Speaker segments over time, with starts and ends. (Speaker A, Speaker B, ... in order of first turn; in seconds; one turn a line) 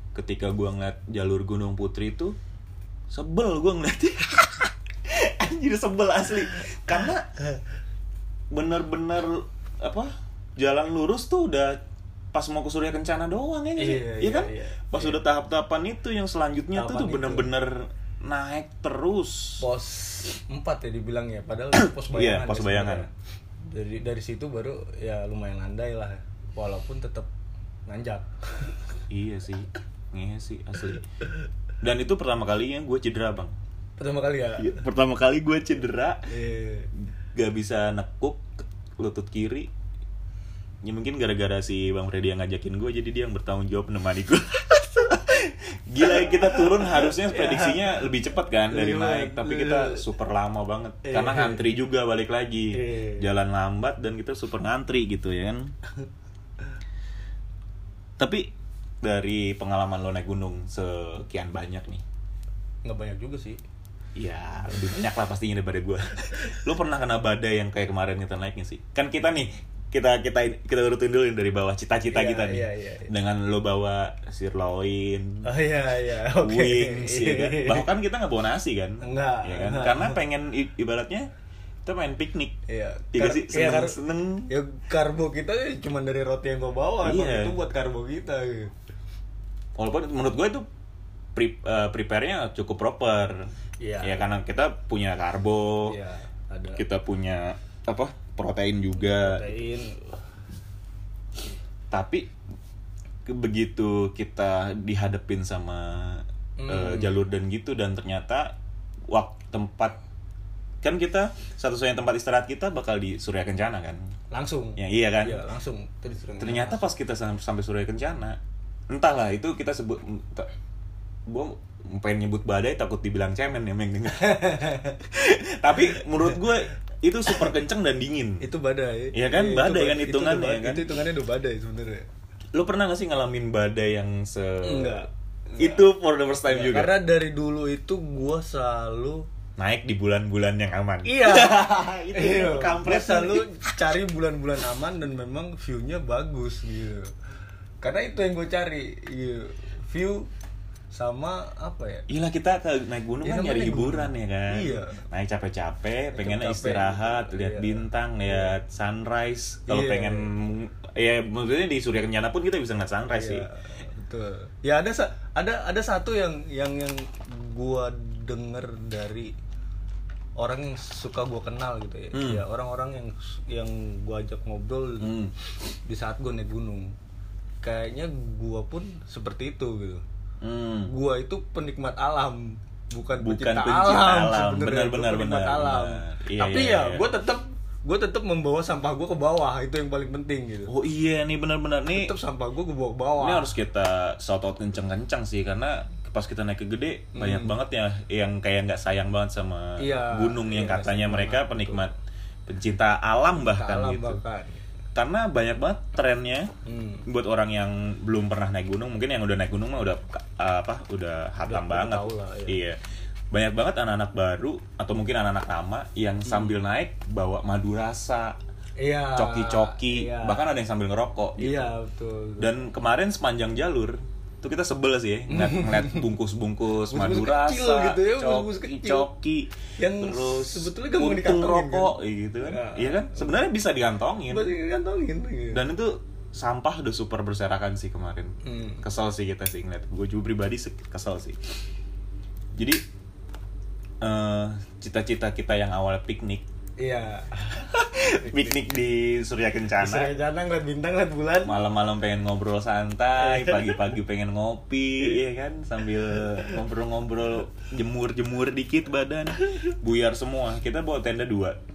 Speaker A: 0.1-2.4
Speaker A: 3.1-7.3
Speaker A: 8.5-11.8
Speaker A: 12.3-19.7
Speaker B: 13.8-15.2
Speaker B: 16.7-17.5
Speaker B: 19.6-23.1
Speaker A: 21.7-23.1
Speaker B: 23.7-27.3
Speaker B: 27.9-29.0
Speaker A: 29.1-31.1
Speaker A: 31.8-33.5
Speaker B: 34.0-34.9
Speaker A: 34.6-36.3
Speaker B: 36.3-36.9
Speaker A: 37.3-39.7
Speaker A: 40.8-55.7
Speaker B: 46.1-48.0
Speaker B: 48.7-50.1
Speaker B: 51.0-51.7
Speaker B: 52.7-53.3
Speaker A: 58.2-58.5
Speaker A: 59.0-62.0
Speaker B: 62.8-63.6
Speaker A: 64.2-75.5
Speaker B: 72.1-73.1
Speaker B: 75.4-77.9
Speaker A: 76.3-81.3
Speaker B: 79.0-80.2
Speaker A: 81.8-82.6
Speaker B: 82.7-88.7
Speaker A: 83.1-84.5
Speaker A: 87.0-87.6
Speaker A: 89.8-90.7
Speaker A: 91.3-93.5
Speaker B: 93.8-94.2
Speaker A: 94.0-96.0
Speaker B: 95.9-96.8
Speaker A: 96.8-99.5
Speaker B: 99.0-100.0
Speaker A: 101.9-102.3
Speaker A: 103.2-108.6
Speaker B: 106.6-107.2
Speaker A: 109.1-110.0
Speaker A: 110.8-114.1
Speaker B: 114.3-116.9
Speaker A: 114.8-115.4
Speaker A: 116.4-118.4
Speaker A: 118.9-120.5
Speaker A: 121.3-128.4
Speaker B: 124.1-125.0
Speaker B: 128.4-132.1
Speaker A: 129.1-130.8
Speaker A: 132.5-137.0
Speaker B: 134.6-135.9
Speaker B: 136.5-139.2
Speaker A: 139.6-143.5
Speaker B: 141.1-147.1
Speaker B: 147.8-150.3
Speaker B: 150.9-152.1
Speaker A: 152.1-163.5
Speaker B: 153.2-155.0
Speaker B: 156.1-158.5
Speaker B: 159.7-160.3
Speaker B: 163.1-169.3
Speaker B: 170.4-175.1
Speaker A: 172.1-172.4
Speaker A: 175.0-175.3
Speaker B: 175.9-176.9
Speaker B: 177.6-180.0
Speaker A: 180.4-180.9
Speaker B: 180.9-190.7
Speaker A: 183.2-187.1
Speaker A: 190.7-192.1
Speaker B: 191.9-193.5
Speaker A: 193.2-201.9
Speaker B: 197.1-197.5
Speaker B: 199.8-201.9
Speaker A: 202.5-204.2
Speaker B: 203.4-204.6
Speaker A: 204.9-206.5
Speaker B: 206.7-207.1
Speaker A: 207.1-212.8
Speaker B: 211.4-212.6
Speaker A: 213.3-218.4
Speaker B: 216.2-216.5
Speaker B: 218.8-220.4
Speaker A: 219.1-221.7
Speaker B: 221.4-222.5
Speaker A: 222.4-234.5
Speaker B: 225.3-226.1
Speaker B: 226.9-229.1
Speaker B: 229.8-233.4
Speaker B: 234.3-235.6
Speaker A: 235.5-241.4
Speaker B: 238.4-238.8
Speaker A: 242.6-242.8
Speaker A: 244.0-246.4
Speaker B: 246.8-248.6
Speaker A: 247.9-250.1
Speaker B: 249.8-251.6
Speaker A: 251.4-261.6
Speaker B: 253.2-253.8
Speaker B: 256.2-256.6